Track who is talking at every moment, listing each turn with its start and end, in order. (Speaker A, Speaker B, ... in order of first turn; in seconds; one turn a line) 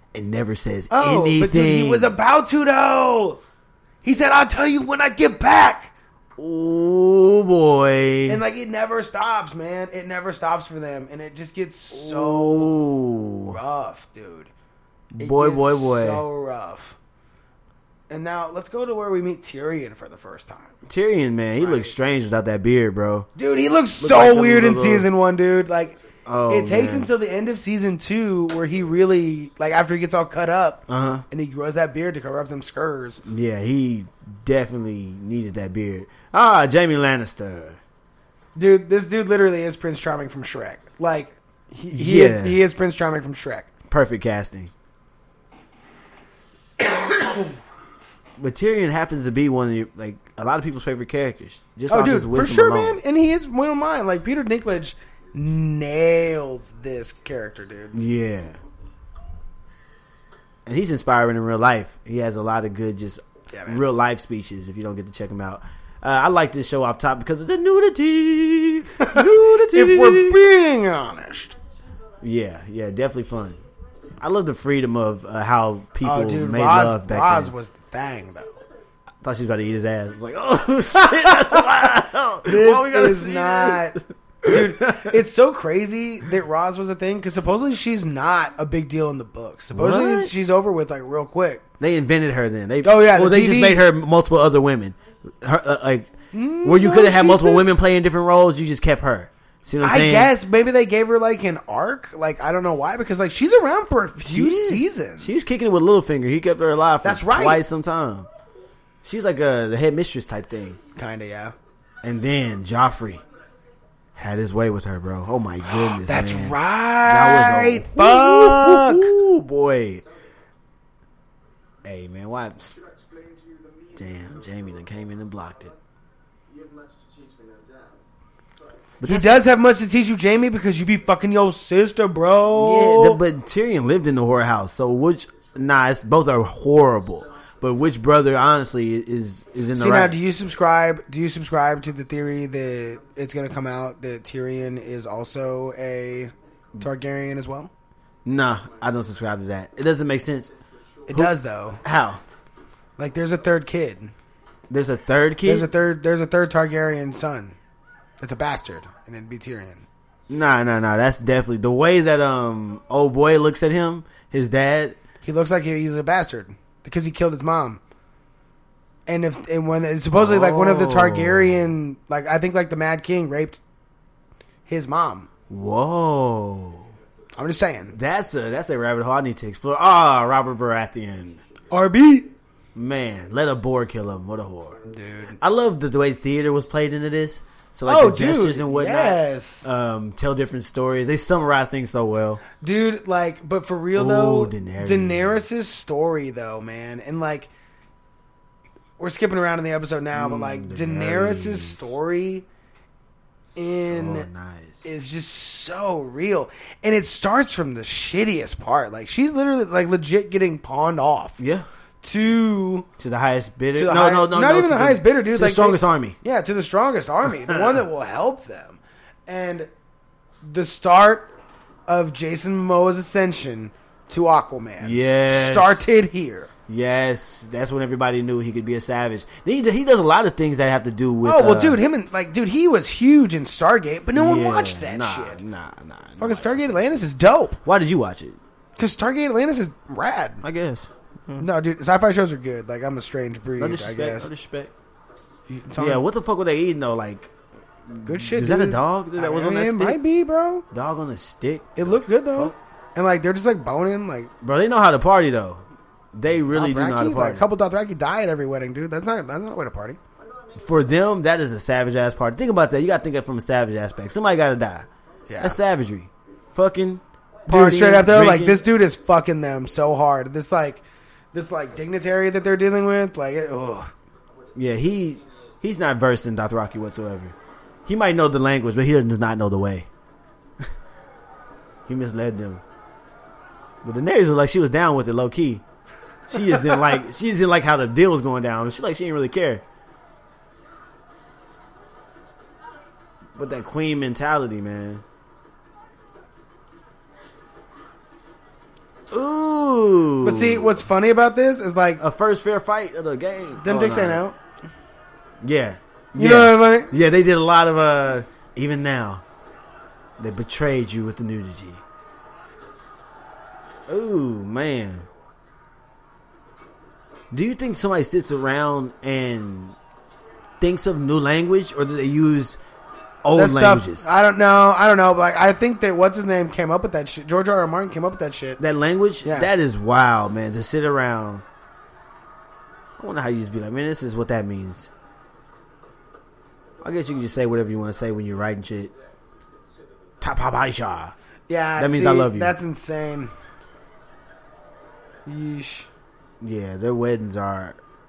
Speaker A: 0.1-2.1
Speaker B: 0.9-3.4
Speaker B: 4.0-5.9
Speaker A: 6.4-8.4
Speaker B: 8.3-12.8
Speaker A: 11.9-13.6
Speaker B: 13.5-14.5
Speaker A: 15.1-16.2
Speaker B: 15.2-17.0
Speaker B: 18.1-20.8
Speaker A: 20.9-23.3
Speaker B: 21.6-21.9
Speaker B: 23.4-26.0
Speaker A: 24.0-25.1
Speaker A: 26.2-27.1
Speaker B: 26.5-33.2
Speaker A: 30.9-31.2
Speaker A: 33.2-37.8
Speaker B: 38.5-43.7
Speaker A: 41.9-42.6
Speaker A: 43.9-44.7
Speaker B: 47.0-47.4
Speaker A: 48.4-53.0
Speaker B: 51.9-58.0
Speaker A: 57.9-58.6
Speaker A: 60.6-70.4
Speaker B: 63.5-63.8
Speaker B: 69.0-71.5
Speaker A: 72.2-73.6
Speaker A: 74.2-77.5
Speaker B: 76.0-78.6
Speaker A: 79.2-85.1
Speaker B: 81.1-81.7
Speaker B: 82.4-91.6
Speaker A: 89.7-90.3
Speaker A: 91.8-100.3
Speaker B: 92.8-93.8
Speaker B: 96.3-97.8
Speaker B: 99.8-105.4
Speaker A: 104.2-108.3
Speaker B: 107.0-107.6
Speaker A: 109.0-110.8
Speaker B: 111.0-111.5
Speaker A: 112.0-113.2
Speaker A: 114.2-120.0
Speaker B: 115.6-119.1
Speaker A: 121.8-122.8
Speaker A: 123.9-125.7
Speaker A: 129.0-129.4
Speaker B: 129.0-133.2
Speaker A: 132.5-140.2
Speaker B: 139.7-147.7
Speaker A: 148.2-150.5
Speaker B: 151.1-151.8
Speaker A: 151.1-152.2
Speaker B: 153.0-154.1
Speaker A: 154.7-155.7
Speaker B: 155.4-157.6
Speaker B: 158.2-159.8
Speaker A: 160.3-165.0
Speaker B: 165.2-167.8
Speaker B: 169.1-173.6
Speaker A: 170.1-171.7
Speaker B: 174.7-175.3
Speaker A: 175.5-176.9
Speaker B: 177.3-178.0
Speaker A: 177.9-181.4
Speaker B: 181.7-182.3
Speaker A: 182.7-184.8
Speaker B: 184.8-185.4
Speaker A: 185.4-192.4
Speaker B: 187.8-189.7
Speaker B: 192.6-197.5
Speaker A: 193.9-195.4
Speaker B: 199.0-202.4
Speaker A: 200.1-201.9
Speaker B: 203.5-204.3
Speaker A: 203.9-204.8
Speaker B: 204.8-211.4
Speaker A: 211.4-211.7
Speaker B: 212.0-212.9
Speaker A: 213.0-216.2
Speaker B: 213.7-219.7
Speaker B: 220.4-221.3
Speaker B: 221.9-226.5
Speaker A: 224.8-225.8
Speaker A: 226.7-231.8
Speaker B: 231.2-235.4
Speaker A: 234.1-237.1
Speaker B: 236.2-237.6
Speaker A: 237.6-238.4
Speaker B: 238.8-240.4
Speaker A: 240.4-241.5
Speaker B: 241.4-244.3
Speaker A: 243.6-244.7
Speaker B: 245.5-246.0
Speaker A: 245.8-247.3
Speaker A: 247.8-250.0
Speaker B: 248.0-250.7
Speaker A: 250.7-252.5
Speaker B: 251.8-254.3
Speaker A: 254.4-255.6
Speaker A: 256.1-257.4
Speaker B: 256.4-260.0
Speaker A: 260.6-264.9
Speaker B: 265.3-265.6
Speaker A: 265.4-268.6
Speaker B: 267.5-273.9
Speaker A: 274.5-277.3
Speaker A: 277.9-279.9
Speaker A: 281.9-282.6
Speaker A: 283.8-285.6
Speaker A: 286.3-289.6
Speaker A: 293.3-295.0
Speaker A: 299.1-300.8
Speaker B: 300.2-302.0
Speaker A: 302.0-304.2
Speaker B: 303.6-304.4
Speaker A: 305.4-309.2
Speaker B: 306.1-306.9
Speaker A: 310.2-311.8
Speaker A: 313.9-315.1
Speaker A: 317.3-319.8
Speaker A: 320.6-322.6
Speaker A: 323.2-324.1
Speaker B: 323.3-328.6
Speaker A: 328.6-331.4
Speaker B: 329.2-329.5
Speaker A: 333.0-334.9
Speaker A: 336.8-338.9
Speaker A: 340.2-341.1
Speaker B: 341.5-343.3
Speaker A: 341.8-342.6
Speaker B: 345.2-345.9
Speaker A: 346.4-347.8